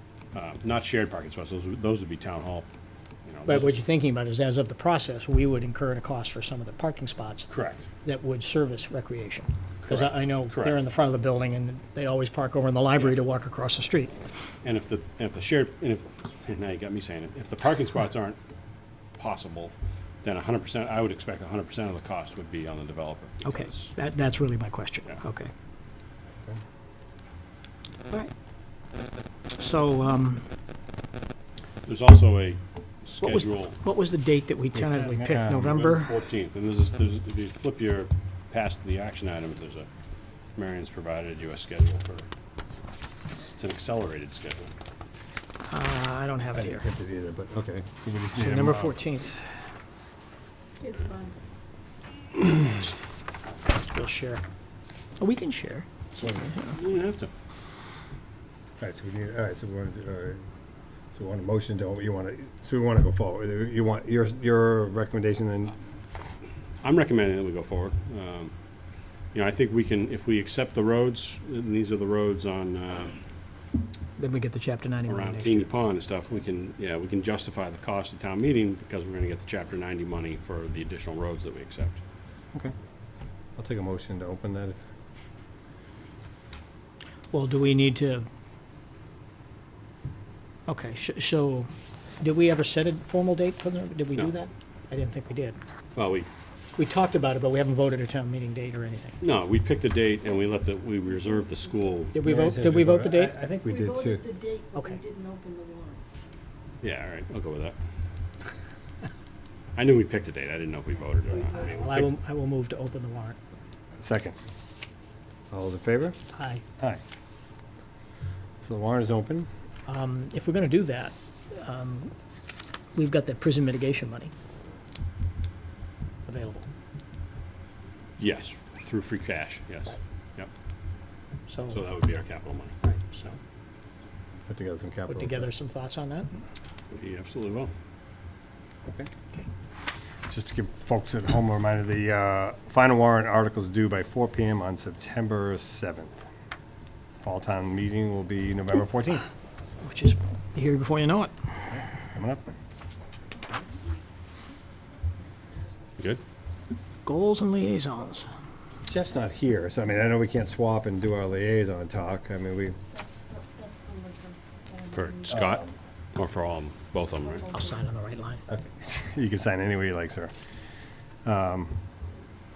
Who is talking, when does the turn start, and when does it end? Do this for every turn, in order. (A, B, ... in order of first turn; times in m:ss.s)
0:00.3-0:02.7 A
0:03.2-0:03.7 A
0:03.5-0:07.5 B
0:07.5-0:07.9 A
0:08.0-0:14.2 B
0:09.8-0:10.8 A
0:14.6-0:18.4 A
0:19.2-0:23.9 A
0:23.4-0:25.5 B
0:29.5-0:30.5 B
0:31.8-0:33.8 A
0:33.2-0:36.2 B
0:34.7-0:35.8 C
0:35.6-0:39.9 A
0:40.6-0:42.3 A
0:43.4-0:44.8 A
0:45.7-0:46.8 B
0:46.5-0:49.0 C
0:48.4-0:49.4 B
0:50.8-0:51.4 D
0:52.5-0:52.9 B
0:53.7-0:54.4 B
0:55.2-0:56.8 B
0:56.7-0:57.3 A
0:58.8-1:00.4 C
1:01.1-1:05.8 C
1:06.8-1:08.5 A
1:09.3-1:13.2 A
1:14.2-1:15.7 B
1:15.0-1:22.0 A
1:23.6-1:24.8 C
1:27.3-1:28.3 B
1:30.7-1:31.7 B
1:32.2-1:35.6 B
1:35.9-1:36.3 A
1:36.8-1:39.2 B
1:39.2-1:42.2 A
1:42.1-1:43.3 B
1:42.2-1:44.2 C
1:43.7-1:46.0 D
1:46.8-1:47.8 A
1:49.7-1:52.1 A
1:51.5-1:53.4 B
1:54.0-1:54.4 C
1:55.5-1:56.2 C
1:56.3-1:56.6 B
1:58.6-1:59.5 C
1:59.8-2:02.1 B
2:02.9-2:04.3 B
2:06.2-2:06.7 B
2:08.2-2:10.5 A
2:11.5-2:11.8 B
2:11.7-2:12.8 A
2:12.8-2:13.4 B
2:14.5-2:15.5 C
2:15.1-2:16.3 B
2:16.9-2:17.7 A
2:20.3-2:26.2 C
2:27.2-2:29.3 C
2:29.8-2:31.3 B
2:31.7-2:32.4 C
2:37.0-2:38.3 B
2:38.9-2:42.8 C
2:42.9-2:45.4 D
2:44.9-2:45.6 A
2:45.3-2:45.7 C
2:46.1-2:47.5 A
2:47.3-2:47.7 D
2:47.5-2:48.4 B
2:48.5-2:50.3 C
2:51.2-2:51.8 C